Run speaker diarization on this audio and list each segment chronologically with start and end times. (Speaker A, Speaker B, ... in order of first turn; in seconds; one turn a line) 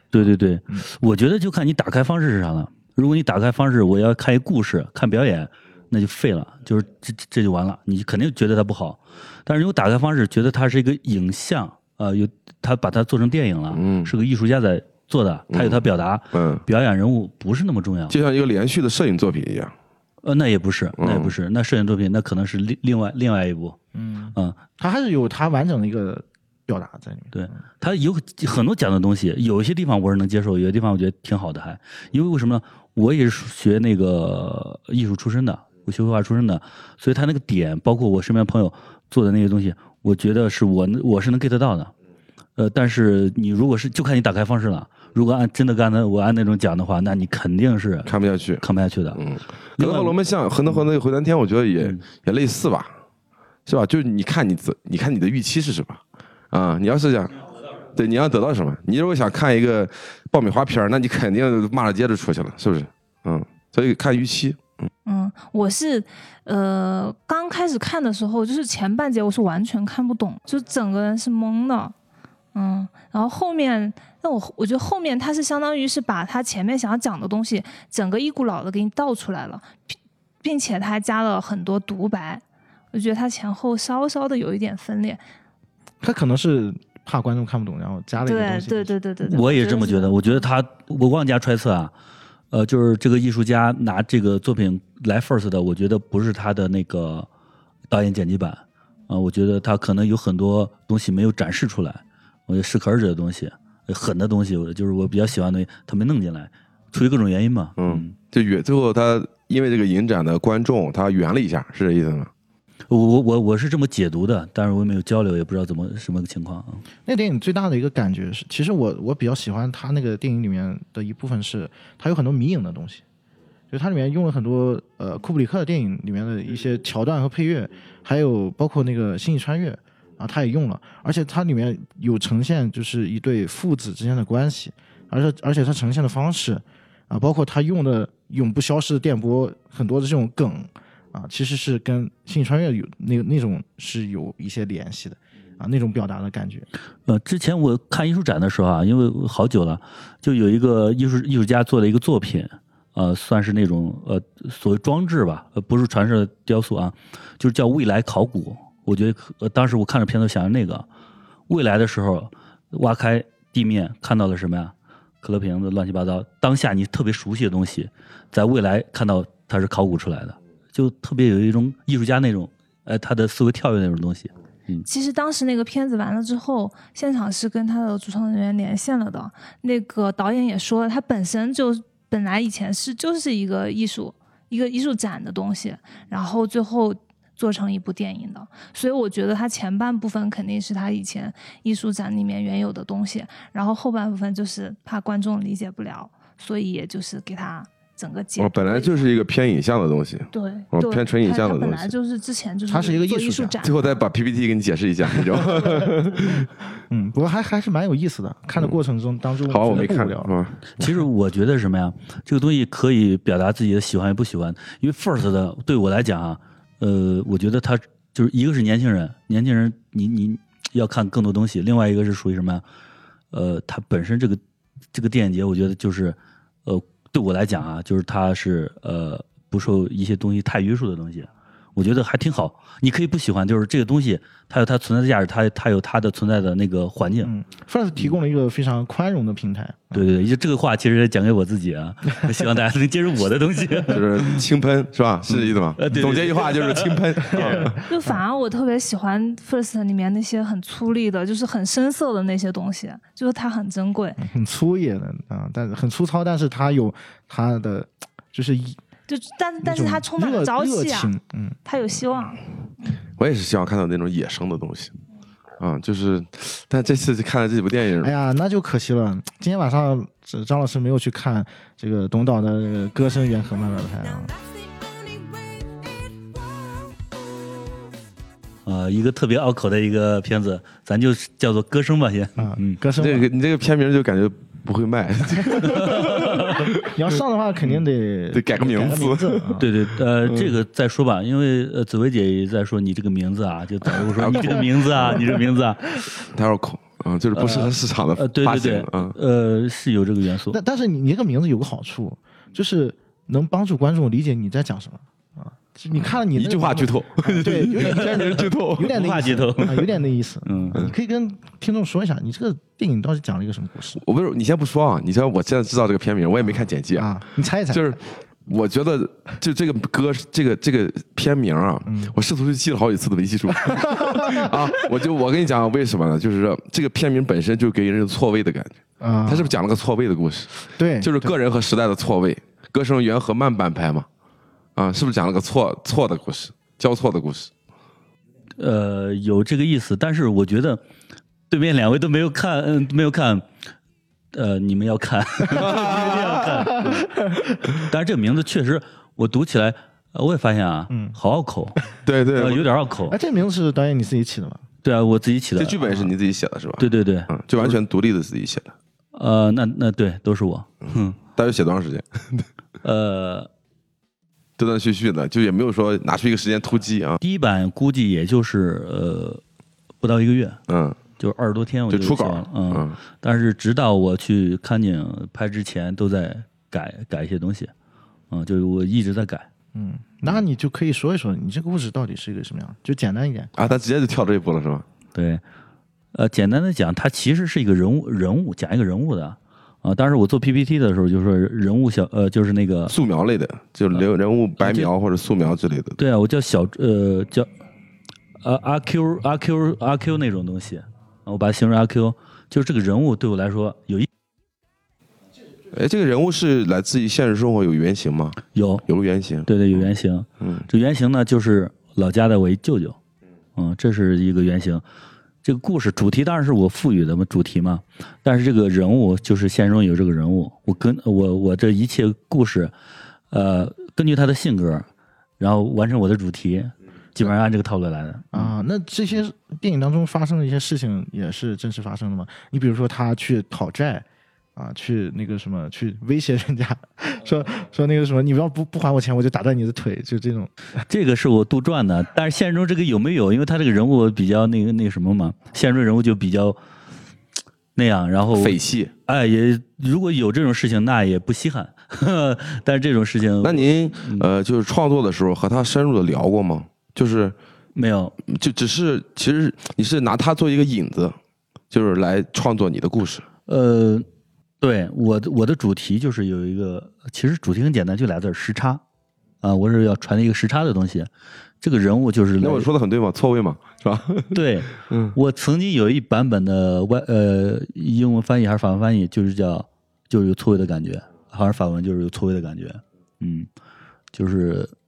Speaker A: 0.1-18.2
Speaker B: 13.7-14.1
Speaker B: 15.5-16.6
Speaker B: 18.1-19.7
Speaker A: 20.2-23.8
Speaker B: 21.0-21.3
Speaker C: 23.9-27.6
Speaker A: 27.3-41.9
Speaker A: 42.6-48.1
Speaker B: 48.1-48.6
Speaker A: 48.6-49.2
Speaker B: 49.1-52.9
Speaker A: 49.8-50.2
Speaker B: 53.7-64.9
Speaker D: 65.0-71.9
Speaker D: 72.5-85.2
Speaker C: 86.0-88.9
Speaker D: 88.2-90.5
Speaker A: 89.2-91.9
Speaker A: 92.5-97.3
Speaker A: 97.9-108.1
Speaker B: 107.8-112.3
Speaker A: 112.9-116.8
Speaker C: 117.1-123.0
Speaker C: 123.7-146.7
Speaker A: 147.1-160.9
Speaker A: 161.5-174.9
Speaker D: 174.9-199.0
Speaker B: 198.4-201.9
Speaker D: 200.3-203.9
Speaker C: 202.7-203.6
Speaker B: 203.6-206.5
Speaker C: 205.4-210.3
Speaker B: 209.5-210.9
Speaker A: 210.8-222.6
Speaker A: 223.3-224.4
Speaker A: 224.9-237.3
Speaker C: 237.2-240.1
Speaker A: 239.9-244.4
Speaker B: 243.9-247.8
Speaker A: 245.8-247.7
Speaker C: 247.3-248.2
Speaker D: 247.9-254.2
Speaker C: 254.2-258.8
Speaker D: 259.1-261.1
Speaker C: 259.6-261.6
Speaker D: 261.7-262.4
Speaker B: 263.2-264.9
Speaker B: 265.6-268.1
Speaker C: 268.0-274.3
Speaker E: 274.5-276.3
Speaker E: 276.8-277.1
Speaker A: 278.7-282.8
Speaker C: 282.4-283.3
Speaker B: 283.0-287.0
Speaker C: 285.5-289.7
Speaker A: 285.6-286.6
Speaker B: 288.3-289.6
Speaker A: 289.6-296.0
Speaker B: 290.2-290.5
Speaker B: 294.0-295.4
Speaker B: 296.2-299.1
Speaker A: 297.4-300.6
Speaker C: 300.5-314.0
Speaker B: 306.3-309.0
Speaker A: 307.8-309.9
Speaker A: 310.4-310.8
Speaker B: 314.0-317.1
Speaker C: 316.9-318.0
Speaker B: 317.7-334.1
Speaker C: 321.9-322.1
Speaker C: 323.6-324.8
Speaker C: 329.0-329.6
Speaker C: 330.8-331.4
Speaker B: 334.8-337.5
Speaker A: 338.6-340.8
Speaker A: 341.5-343.5
Speaker A: 344.3-347.1
Speaker B: 345.5-346.7
Speaker C: 345.6-347.6
Speaker A: 347.8-351.8
Speaker C: 350.9-351.2
Speaker B: 352.1-352.7
Speaker A: 352.4-353.2
Speaker C: 353.1-354.6
Speaker A: 354.8-356.0
Speaker B: 355.6-358.8
Speaker A: 356.8-357.8
Speaker A: 359.1-361.2
Speaker B: 361.3-362.5
Speaker A: 362.8-363.5
Speaker B: 364.6-367.2
Speaker A: 367.2-369.4
Speaker A: 370.0-370.6
Speaker B: 370.7-371.0
Speaker A: 371.2-377.7
Speaker B: 371.9-373.0
Speaker A: 378.3-379.5
Speaker C: 379.7-383.5
Speaker B: 383.6-384.9
Speaker A: 385.1-385.4
Speaker A: 386.1-392.9
Speaker B: 392.9-396.0
Speaker A: 394.6-394.9
Speaker A: 396.0-397.5
Speaker A: 398.4-404.1
Speaker B: 405.7-409.8
Speaker A: 408.5-408.9
Speaker A: 409.5-413.0
Speaker B: 410.4-410.7
Speaker A: 413.6-414.8
Speaker A: 415.4-422.7
Speaker A: 423.3-424.9
Speaker A: 425.4-428.5
Speaker C: 428.3-434.1
Speaker C: 434.6-440.5
Speaker A: 440.9-446.6
Speaker A: 447.8-454.3
Speaker B: 448.3-448.9
Speaker B: 453.4-457.4
Speaker A: 457.8-458.2
Speaker B: 458.3-461.2
Speaker B: 461.7-463.3
Speaker A: 463.5-464.1
Speaker A: 464.6-468.8
Speaker A: 469.4-471.1
Speaker A: 471.6-472.7
Speaker B: 472.4-475.1
Speaker A: 474.3-483.5
Speaker A: 484.1-484.7